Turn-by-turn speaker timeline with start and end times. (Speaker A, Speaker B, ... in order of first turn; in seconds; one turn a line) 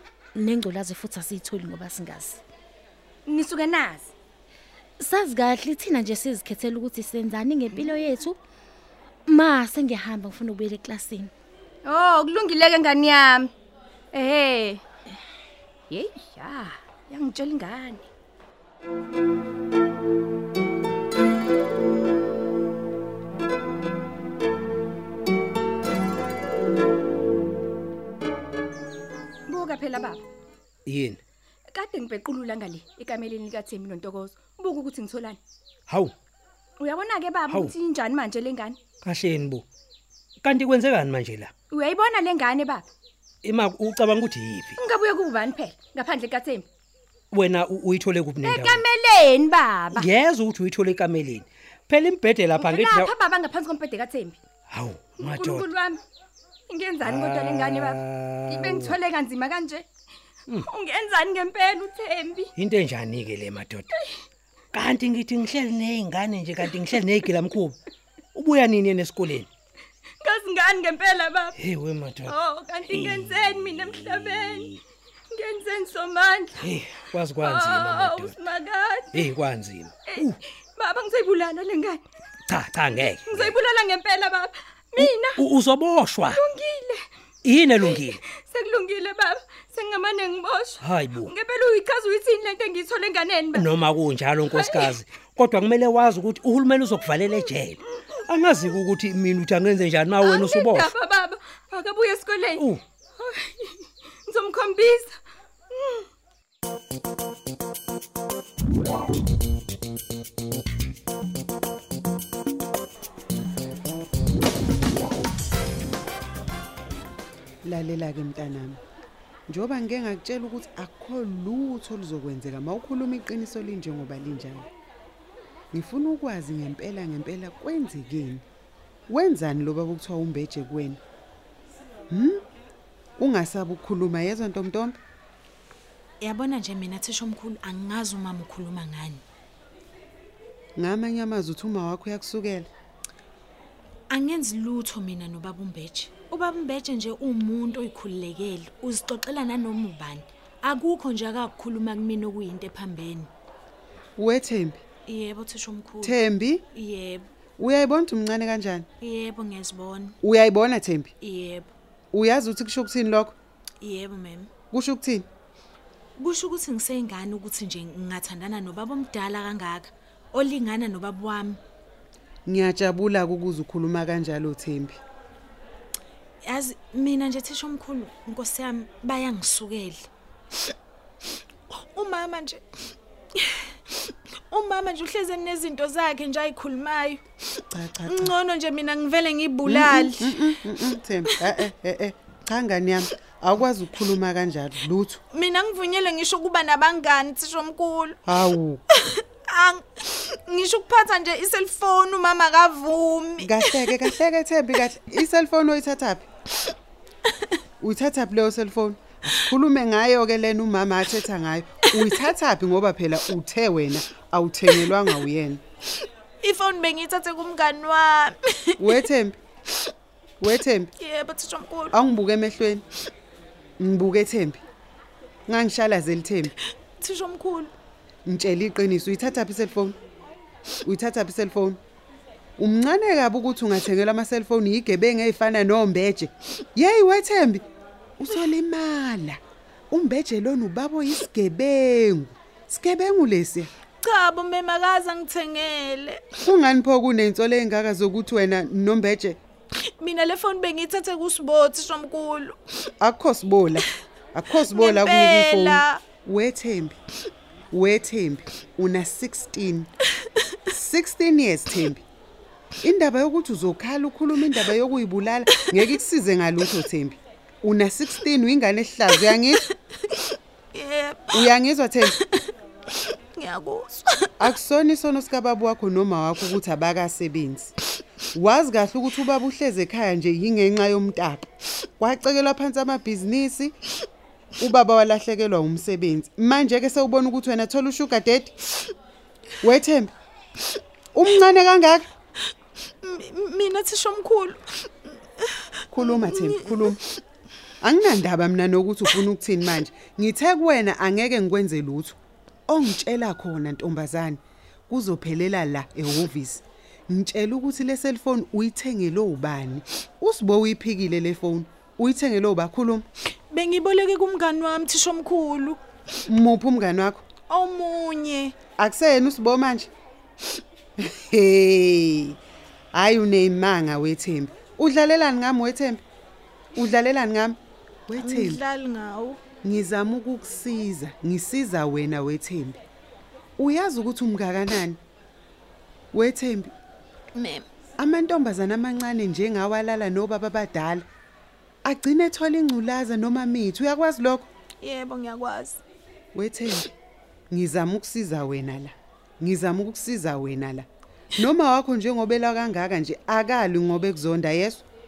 Speaker A: 0.3-2.4
Speaker B: 3.2-4.1
Speaker A: 5.0-8.4
Speaker A: 9.3-11.3
Speaker B: 11.8-13.5
Speaker B: 14.1-14.8
Speaker B: 15.9-18.0
Speaker B: 29.5-30.2
Speaker C: 30.9-31.2
Speaker B: 31.7-35.4
Speaker C: 35.9-36.1
Speaker B: 36.8-38.8
Speaker C: 37.5-37.7
Speaker C: 39.0-39.6
Speaker C: 40.4-41.5
Speaker B: 41.7-42.9
Speaker C: 43.4-44.8
Speaker B: 44.8-46.6
Speaker C: 47.3-48.8
Speaker B: 48.4-50.0
Speaker C: 49.9-53.1
Speaker B: 52.6-54.4
Speaker C: 54.7-55.7
Speaker B: 55.2-56.0
Speaker B: 56.7-58.0
Speaker C: 57.0-59.0
Speaker B: 58.5-59.9
Speaker B: 60.7-62.5
Speaker C: 62.6-63.9
Speaker C: 64.7-67.8
Speaker C: 68.3-69.5
Speaker B: 70.2-71.5
Speaker C: 71.5-74.8
Speaker B: 72.3-74.7
Speaker B: 75.3-76.6
Speaker C: 76.6-78.4
Speaker B: 77.5-79.2
Speaker C: 79.1-80.4
Speaker B: 80.0-82.0
Speaker C: 82.5-83.5
Speaker B: 83.2-85.4
Speaker C: 84.9-86.4
Speaker B: 86.3-87.0
Speaker C: 87.4-88.2
Speaker B: 87.8-93.7
Speaker C: 90.8-91.3
Speaker C: 93.5-100.9
Speaker B: 94.5-94.9
Speaker B: 100.2-105.2
Speaker C: 102.5-102.8
Speaker B: 105.7-106.1
Speaker D: 117.6-118.8
Speaker D: 119.5-124.7
Speaker D: 125.7-128.4
Speaker D: 129.1-131.0
Speaker D: 132.1-132.4
Speaker D: 133.2-135.0
Speaker E: 136.2-139.2
Speaker D: 140.8-142.7
Speaker E: 144.1-153.3
Speaker D: 154.2-154.8
Speaker E: 155.1-156.2
Speaker D: 156.0-156.6
Speaker E: 156.7-157.2
Speaker D: 157.6-158.8
Speaker E: 159.0-160.1
Speaker D: 160.2-161.1
Speaker E: 161.2-161.7
Speaker D: 162.1-163.3
Speaker E: 163.8-164.5
Speaker D: 164.7-165.2
Speaker E: 166.2-171.6
Speaker D: 172.4-175.0
Speaker E: 176.4-180.1
Speaker E: 181.7-182.6
Speaker E: 183.4-190.4
Speaker D: 187.7-188.3
Speaker D: 189.7-195.2
Speaker E: 195.3-198.2
Speaker D: 198.2-198.8
Speaker E: 198.9-204.1
Speaker D: 203.4-206.2
Speaker D: 207.8-215.6
Speaker E: 216.4-218.9
Speaker D: 218.8-219.4
Speaker D: 220.4-220.9
Speaker E: 221.0-221.9
Speaker D: 221.9-222.8
Speaker D: 223.8-224.6
Speaker D: 225.5-226.5
Speaker E: 227.0-227.7
Speaker D: 228.2-230.0
Speaker D: 230.8-231.8
Speaker D: 232.6-237.6
Speaker D: 238.2-239.4
Speaker D: 239.9-243.7
Speaker E: 244.0-246.2
Speaker D: 246.4-249.4
Speaker E: 250.0-252.6
Speaker D: 253.0-256.9
Speaker E: 254.7-256.0
Speaker D: 257.7-259.9
Speaker D: 260.7-262.0
Speaker D: 262.8-269.6
Speaker E: 269.2-271.5
Speaker D: 271.3-272.1
Speaker E: 272.0-272.5
Speaker E: 273.3-274.3
Speaker D: 274.4-277.7
Speaker D: 278.3-281.5
Speaker D: 282.0-283.8
Speaker D: 284.6-288.5
Speaker D: 289.6-290.1
Speaker D: 291.1-292.1
Speaker E: 293.0-297.2
Speaker D: 295.9-297.0
Speaker D: 297.8-302.2
Speaker D: 302.7-313.0
Speaker E: 313.5-315.8
Speaker D: 316.3-317.2
Speaker E: 317.5-318.5
Speaker D: 318.8-319.9
Speaker D: 321.0-322.4
Speaker D: 322.9-326.0
Speaker D: 326.7-328.6
Speaker E: 328.2-329.4
Speaker D: 329.6-332.8
Speaker D: 333.6-335.0
Speaker D: 336.1-336.7
Speaker E: 337.3-337.7
Speaker D: 338.0-341.1
Speaker D: 341.8-344.5
Speaker E: 344.8-345.8
Speaker D: 346.3-346.9
Speaker D: 347.5-350.9
Speaker D: 351.4-354.8